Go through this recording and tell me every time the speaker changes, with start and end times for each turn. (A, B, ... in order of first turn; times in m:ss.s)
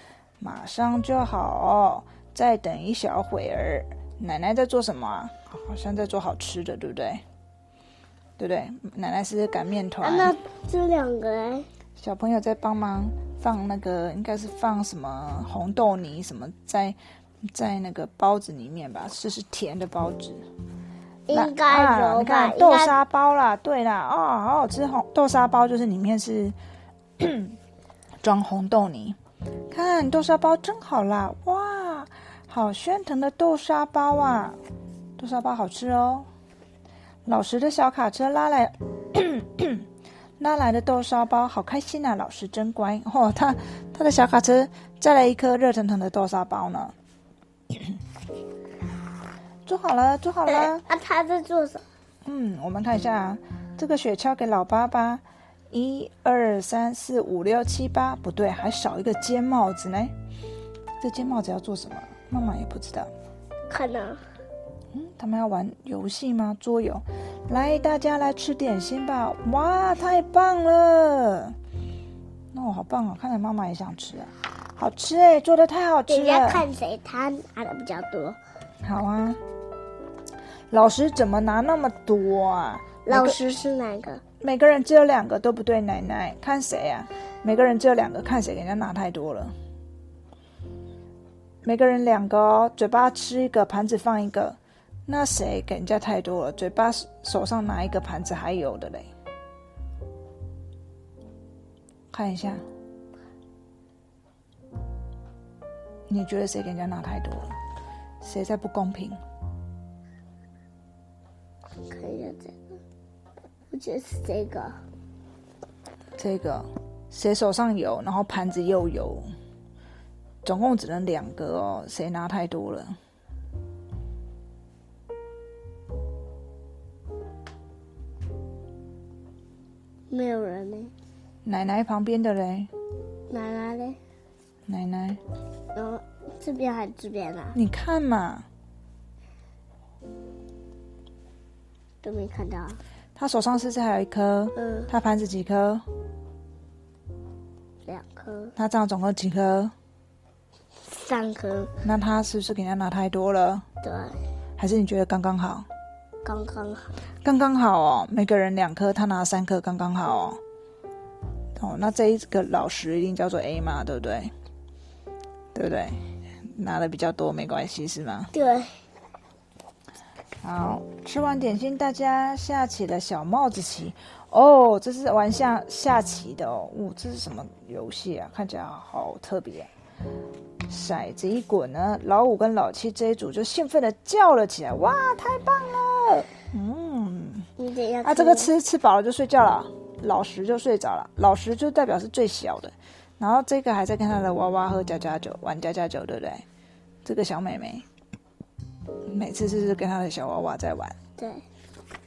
0:00.4-0:07.2 A
0:08.4-0:10.3 A
0:10.0-0:11.6 B
0:12.0-0:17.0 A
0:17.5-0:20.4 A
0:21.3-0:23.0 B
0:21.3-0:26.6 A
0:27.2-0:27.6 A
0:28.2-0:29.2 A
0:29.7-0:34.6 A
0:35.2-0:36.3 A
0:37.2-0:39.8 A
0:40.4-0:46.9 A
0:49.6-0:50.8 A
0:50.5-0:51.8 B
0:52.2-1:00.1 A
1:01.0-1:03.1 A
1:03.7-1:04.2 B
1:04.9-1:11.5 A
1:12.5-1:16.6 A
1:16.1-1:18.4 B
1:18.8-1:19.4 A
1:20.7-1:23.4 A
1:23.0-1:24.2 B
1:24.4-1:29.5 A
1:31.6-1:39.1 A
1:42.1-1:42.6 A
1:46.1-1:47.5 A
1:48.2-1:49.2 A
1:51.9-1:52.6 B
1:53.7-1:54.8 B
1:56.2-1:59.3 A
2:00.4-2:03.0 A
2:10.1-2:10.9 B
2:11.4-2:12.7 A
2:13.3-2:14.0 B
2:14.7-2:15.2 A
2:15.7-2:17.6 B
2:17.5-2:18.4 A
2:22.0-2:22.8 B
2:23.2-2:25.8 A
2:24.6-2:24.9 B
2:27.9-2:28.5 B
2:28.6-2:29.7 A
2:30.8-2:31.7 B
2:31.8-2:33.6 A
2:33.8-2:34.2 B
2:34.6-2:35.6 A
2:36.2-2:36.9 B
2:37.2-2:40.4 A
2:41.6-2:44.3 A
2:45.5-2:46.0 A
2:46.5-2:48.3 A
2:48.3-2:48.7 B
2:50.4-2:59.7 A
3:00.7-3:07.5 A
3:07.6-3:08.5 B
3:08.0-3:16.4 A
3:17.0-3:17.8 A
3:19.1-3:21.0 A
3:21.2-3:21.4 B